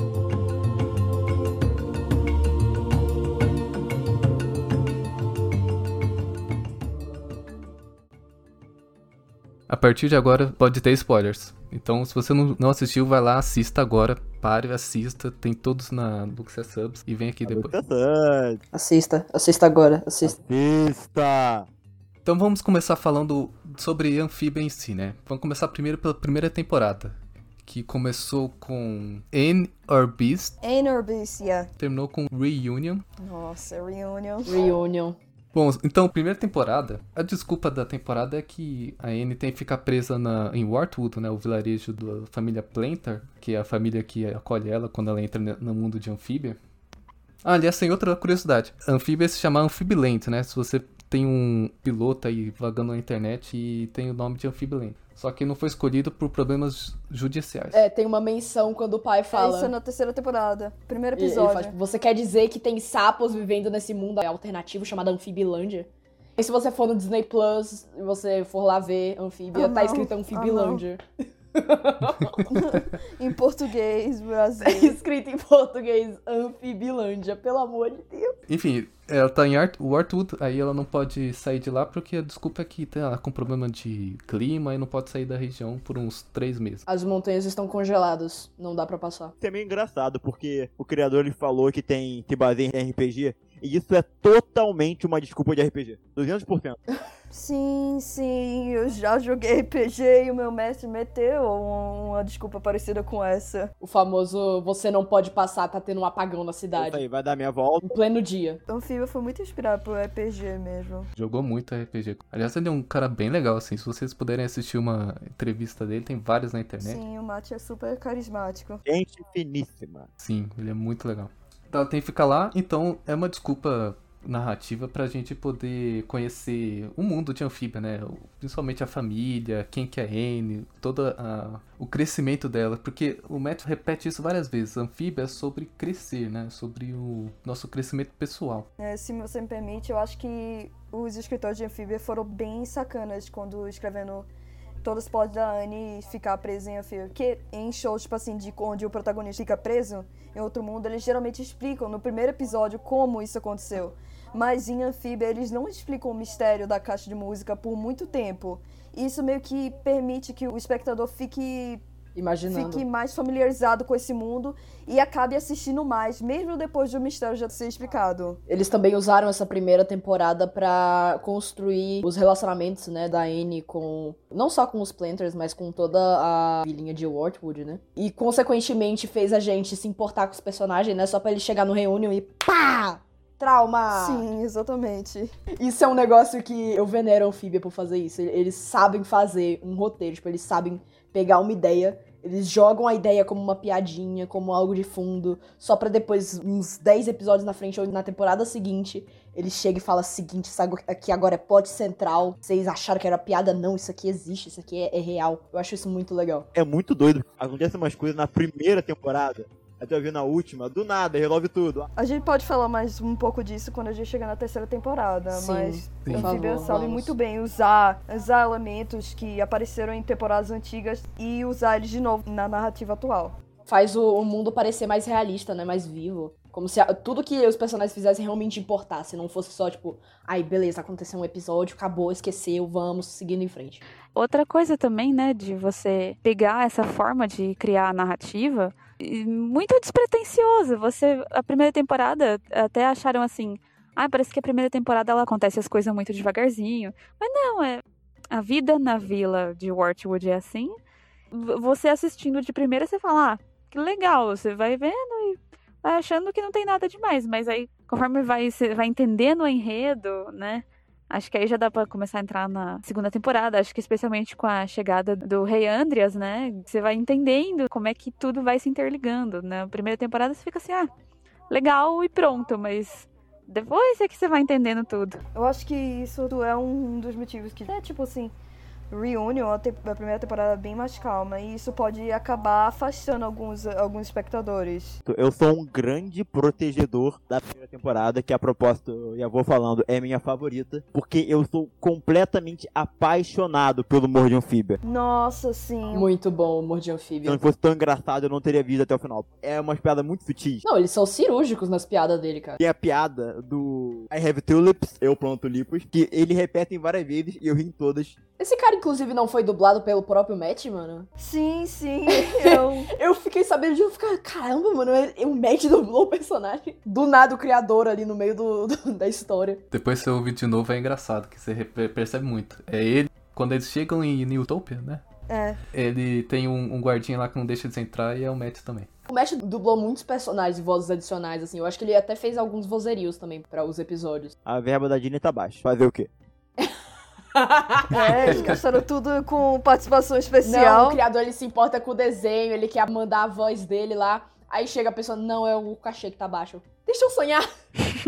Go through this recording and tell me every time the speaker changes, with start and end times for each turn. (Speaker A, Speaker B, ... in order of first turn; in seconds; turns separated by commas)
Speaker A: 9.7-17.7, Speaker B: 17.5-18.6, Speaker C: 18.7-20.4, Speaker B: 20.2-21.7, Speaker A: 22.2-30.6, Speaker D: 30.6-31.7, Speaker A: 31.8-33.0, Speaker D: 33.2-34.7, Speaker C: 34.5-35.2, Speaker A: 35.5-46.6, Speaker A: 47.4-57.8, Speaker C: 57.7-59.7, Speaker D: 59.3-61.8, Speaker C: 61.1-71.0, Speaker D: 69.5-70.8, Speaker C: 71.5-72.5, Speaker A: 72.3-72.7, Speaker D: 72.5-75.0, Speaker C: 74.6-78.3, Speaker A: 78.5-86.8, Speaker C: 86.9-89.3, Speaker B: 89.4-96.8, Speaker D: 97.3-103.7, Speaker C: 103.8-107.0, Speaker B: 106.8-107.9, Speaker C: 107.8-108.6, Speaker D: 108.7-111.1, Speaker A: 111.2-117.0, Speaker D: 116.8-118.8, Speaker B: 118.8-120.1, Speaker A: 120.2-138.7, Speaker D: 138.8-144.3, Speaker D: 144.8-161.8, Speaker C: 162.2-162.8, Speaker D: 162.5-168.4, Speaker C: 168.5-184.2, Speaker D: 183.9-185.4, Speaker C: 185.6-206.5, Speaker B: 206.5-211.9, Speaker D: 212.0-223.4, Speaker C: 215.3-217.1, Speaker A: 216.0-216.5, Speaker C: 223.7-233.8, Speaker E: 234.1-250.8, Speaker E: 251.3-270.9, Speaker E: 271.5-275.2, Speaker D: 275.3-278.4, Speaker D: 278.9-285.0, Speaker B: 285.1-294.8, Speaker D: 294.8-296.1, Speaker C: 295.9-297.4, Speaker B: 297.2-300.6, Speaker C: 300.6-302.6, Speaker B: 302.6-308.2, Speaker C: 308.4-311.1, Speaker D: 311.2-312.9, Speaker C: 312.1-319.6, Speaker A: 319.7-325.0, Speaker D: 325.3-325.6, Speaker A: 325.7-328.9, Speaker C: 329.1-334.4, Speaker B: 334.5-336.1, Speaker C: 337.3-338.5, Speaker A: 337.9-338.9, Speaker D: 337.9-341.0, Speaker C: 340.4-347.5